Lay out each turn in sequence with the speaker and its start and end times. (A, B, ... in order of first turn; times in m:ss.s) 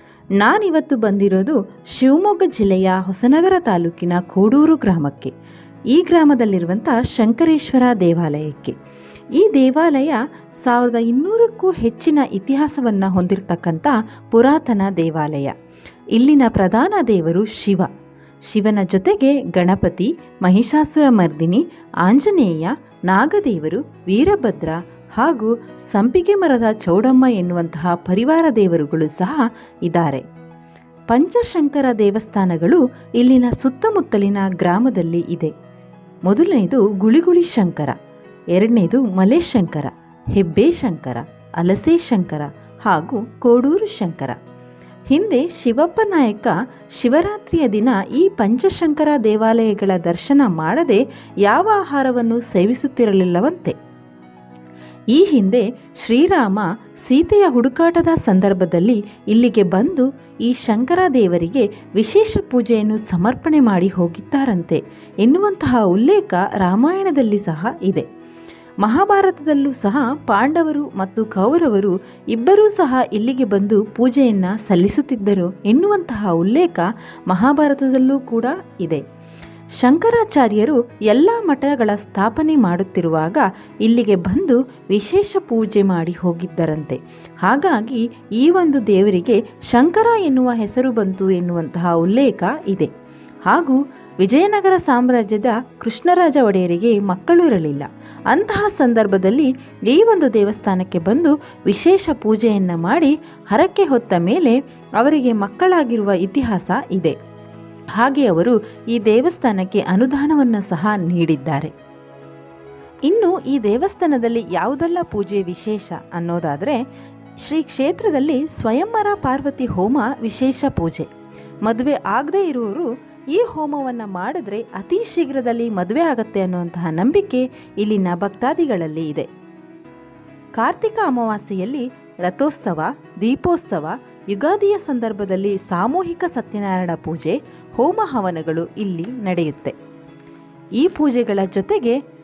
0:00.4-0:05.3 A
0:05.9-0:08.8 A
0:09.3-0:15.5 A
0:16.1-0:17.9 A
0:18.5-0:30.2 A
0:31.1-0:35.5 A
0:36.3-0:38.0 A
0:38.5-0:44.4 A
0:45.1-0:53.8 A
0:55.1-1:08.0 A
1:08.8-1:19.0 A
1:19.8-1:32.9 A
1:33.5-1:47.2 A
1:48.0-1:51.7 A
1:53.1-1:56.8 A
1:57.4-2:01.1 A
2:01.6-2:09.3 A
2:10.6-2:19.7 A
2:20.8-2:22.0 A